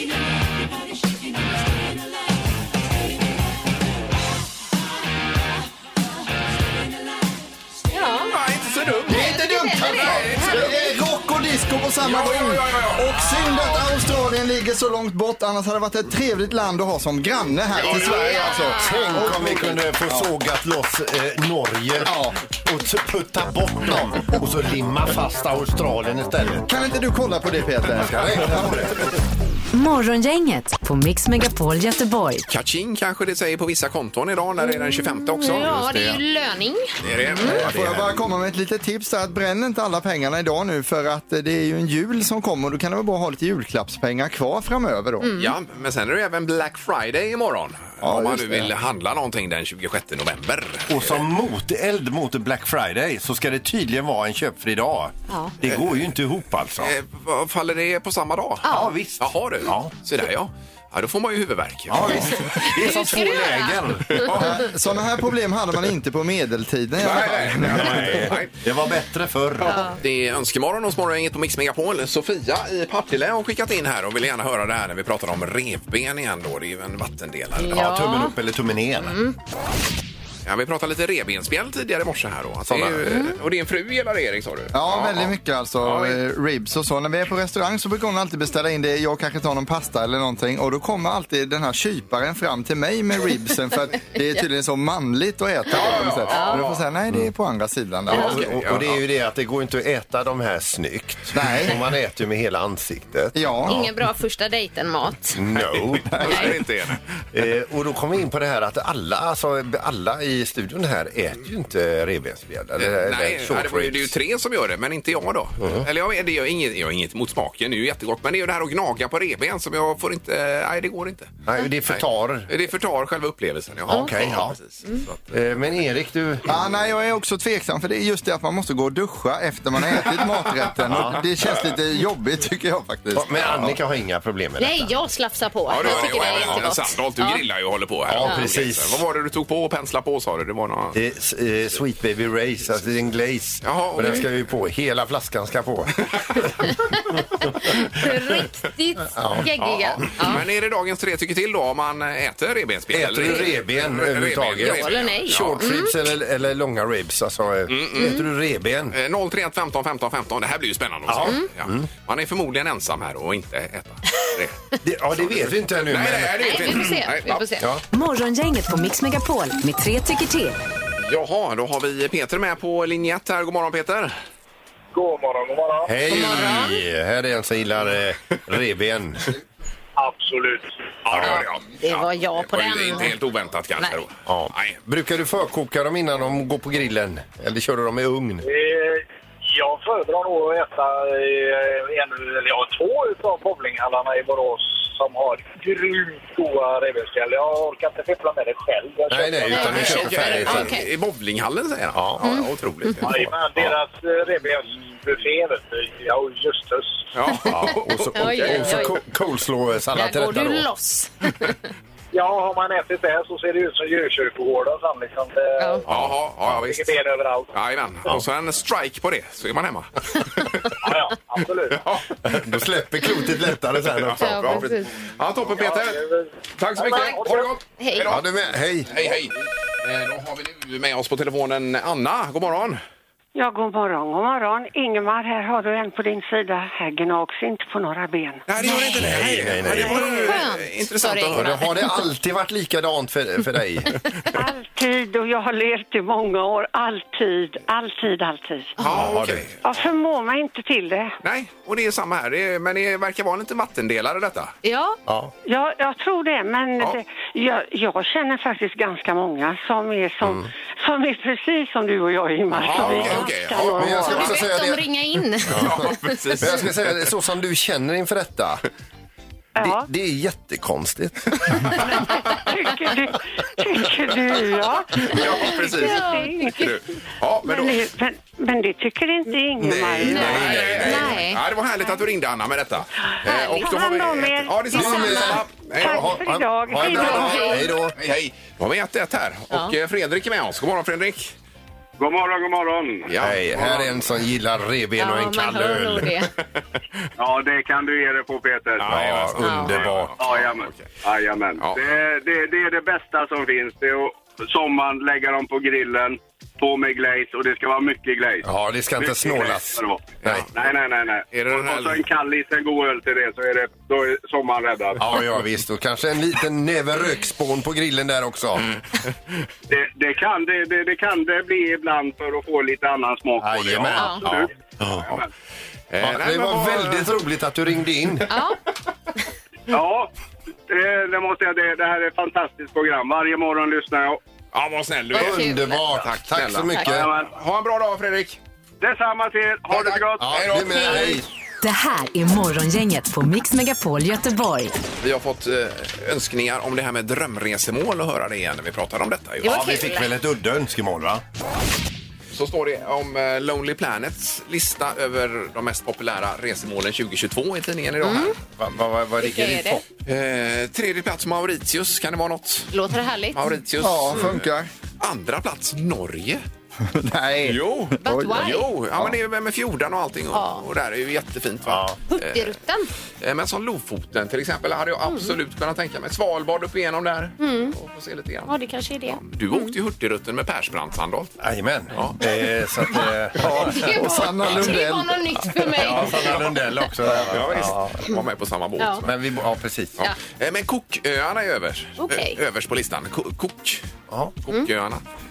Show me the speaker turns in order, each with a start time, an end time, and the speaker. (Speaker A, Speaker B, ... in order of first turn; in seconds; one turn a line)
Speaker A: 7.9-8.3
Speaker B: 8.3-10.9
Speaker C: 9.1-20.3
Speaker A: 9.1-11.0
Speaker B: 12.0-13.8
Speaker B: 17.8-18.4
Speaker A: 17.8-19.7
Speaker D: 18.6-26.7
Speaker C: 22.0-22.4
Speaker C: 26.6-28.9
Speaker D: 28.0-29.1
Speaker E: 29.7-32.5
Speaker B: 32.5-36.1
Speaker A: 34.6-37.6
Speaker B: 37.0-38.1
Speaker C: 37.4-45.3
Speaker A: 45.2-45.5
Speaker B: 45.4-51.2
Speaker C: 48.0-48.7
Speaker D: 50.9-56.9
Speaker A: 55.3-55.5
Speaker B: 56.8-62.5
Speaker A: 58.6-58.9
Speaker D: 58.7-59.9
Speaker D: 61.9-64.3
Speaker A: 62.5-64.2
Speaker B: 64.1-64.6
Speaker C: 64.2-68.3
Speaker B: 67.0-68.5
Speaker D: 67.6-69.8
Speaker B: 69.6-77.8
Speaker A: 69.6-70.0
Speaker D: 77.6-79.2
Speaker A: 77.6-78.3
Speaker A: 79.0-79.3
Speaker B: 80.4-86.2
Speaker D: 82.7-83.2
Speaker A: 83.0-83.4
Speaker C: 84.7-98.5
Speaker A: 94.2-94.5
Speaker B: 95.7-96.8
Speaker A: 96.3-96.7
Speaker D: 98.1-103.9
Speaker B: 98.1-99.0
Speaker C: 101.3-101.8
Speaker C: 103.3-103.8
Speaker A: 103.7-105.4
Speaker D: 105.3-106.5
Speaker B: 105.5-107.0
Speaker C: 106.1-106.6
Speaker D: 107.3-114.1
Speaker B: 112.8-125.1
Speaker D: 115.6-115.8
Speaker D: 121.5-122.5
Speaker D: 123.9-124.6
Speaker D: 125.3-126.5
Speaker C: 126.5-133.8
Speaker D: 130.9-131.2
Speaker D: 133.1-134.9
Speaker A: 134.6-137.4
Speaker B: 135.7-141.0
Speaker D: 135.8-136.7
Speaker D: 138.1-139.0
Speaker D: 140.9-146.7
Speaker B: 143.6-144.3
Speaker A: 147.9-150.4
Speaker D: 149.1-149.5
Speaker B: 149.6-155.7
Speaker D: 152.9-158.9
Speaker A: 153.2-153.5
Speaker A: 154.6-156.0
Speaker B: 157.7-158.2
Speaker A: 157.9-158.2
Speaker B: 158.9-164.6
Speaker D: 161.1-161.9
Speaker A: 161.2-161.5
Speaker D: 164.8-166.4
Speaker B: 165.2-167.4
Speaker A: 166.3-167.8
Speaker E: 167.9-170.6
Speaker B: 171.0-174.1
Speaker F: 174.9-175.9
Speaker D: 175.9-179.3
Speaker A: 176.1-176.8
Speaker F: 180.0-181.1
Speaker B: 181.1-184.8
Speaker D: 181.1-181.4
Speaker A: 181.8-183.2
Speaker A: 183.8-184.1
Speaker D: 184.2-188.4
Speaker F: 188.4-199.7
Speaker D: 199.1-200.7
Speaker A: 199.5-200.9
Speaker B: 199.5-203.3
Speaker D: 201.9-202.2
Speaker A: 202.2-203.1
Speaker F: 203.1-207.1
Speaker B: 207.1-208.9
Speaker A: 207.3-209.0
Speaker D: 207.4-210.7
Speaker A: 209.9-211.6
Speaker F: 212.1-215.8
Speaker A: 215.6-215.8
Speaker B: 215.8-217.0
Speaker F: 216.5-217.5
Speaker B: 217.5-220.9
Speaker F: 220.8-221.8
Speaker B: 221.7-222.7
Speaker D: 222.2-224.7
Speaker B: 223.9-228.2
Speaker A: 224.2-225.1
Speaker F: 225.5-227.5
Speaker A: 227.7-228.2
Speaker D: 228.1-228.9
Speaker B: 228.9-232.8
Speaker G: 233.3-238.4
Speaker B: 238.5-241.6
Speaker D: 238.9-240.3
Speaker A: 239.8-241.8
Speaker D: 241.3-244.1
Speaker G: 244.3-248.8
Speaker B: 248.8-249.6
Speaker D: 248.8-249.5
Speaker G: 249.6-251.2
Speaker B: 251.2-254.5
Speaker A: 254.6-255.0
Speaker D: 255.1-255.3
Speaker G: 255.4-264.3
Speaker D: 260.2-260.5
Speaker B: 262.5-264.4
Speaker D: 262.8-265.0
Speaker A: 263.9-266.5
Speaker D: 265.5-268.6
Speaker B: 265.5-266.8
Speaker G: 269.6-269.9
Speaker D: 269.6-271.8
Speaker G: 272.1-276.7
Speaker B: 274.9-277.9
Speaker A: 275.5-276.7
Speaker G: 277.4-280.4
Speaker D: 279.6-281.2
Speaker B: 279.7-286.2
Speaker A: 280.0-282.0
Speaker G: 283.2-287.7
Speaker A: 283.4-283.7
Speaker D: 284.7-287.9
Speaker A: 284.8-285.4
Speaker A: 286.8-287.7
Speaker B: 286.9-287.4
Speaker B: 287.9-291.3
Speaker A: 289.5-289.8
Speaker H: 292.0-293.1
Speaker B: 293.1-294.1
Speaker D: 293.2-296.1
Speaker A: 295.0-296.3
Speaker H: 297.2-298.9
Speaker B: 298.8-300.9
Speaker D: 298.9-300.1
Speaker A: 299.4-299.8
Speaker H: 300.2-308.4
Speaker D: 308.4-310.5
Speaker H: 309.0-315.0
Speaker B: 310.2-310.5
Speaker B: 311.3-312.0
Speaker D: 315.0-318.7
Speaker H: 319.7-324.5
Speaker D: 323.4-325.1
Speaker A: 323.9-324.2
Speaker B: 325.9-327.1
Speaker D: 326.0-328.3
Speaker A: 328.3-328.6
Speaker H: 329.7-330.1
Speaker H: 330.7-334.2
Speaker B: 334.5-338.4
Speaker A: 335.1-335.9
Speaker D: 335.1-337.1
Speaker H: 336.9-337.3
Speaker H: 338.8-340.4
Speaker B: 339.7-341.2
Speaker D: 340.2-341.2
Speaker A: 340.8-341.2
Speaker E: 341.6-344.8
Speaker B: 345.0-349.5
Speaker A: 349.4-350.1
Speaker D: 349.4-351.2
Speaker B: 352.3-358.3
Speaker A: 358.0-358.4
Speaker D: 358.4-359.8
Speaker A: 359.2-359.8
Speaker B: 360.0-362.7
Speaker A: 362.7-364.3
Speaker B: 363.3-364.4
Speaker C: 363.8-364.7
Speaker B: 365.0-366.4
Speaker C: 366.8-369.1
Speaker B: 367.4-372.6
Speaker A: 368.0-368.8
Speaker A: 370.3-370.6
Speaker D: 371.6-372.0
Speaker A: 372.1-372.9
Speaker B: 373.2-378.5
Speaker A: 375.0-375.4
Speaker A: 377.4-377.8
Speaker A: 378.4-379.8
Speaker B: 379.1-381.4
Speaker D: 381.4-383.9
Speaker C: 383.4-385.2
Speaker A: 383.5-386.4
Speaker D: 385.7-388.0
Speaker B: 385.9-389.1
Speaker A: 388.8-389.1
Speaker D: 389.0-390.0
Speaker B: 390.0-393.9
Speaker A: 392.0-392.4
Speaker B: 394.5-395.0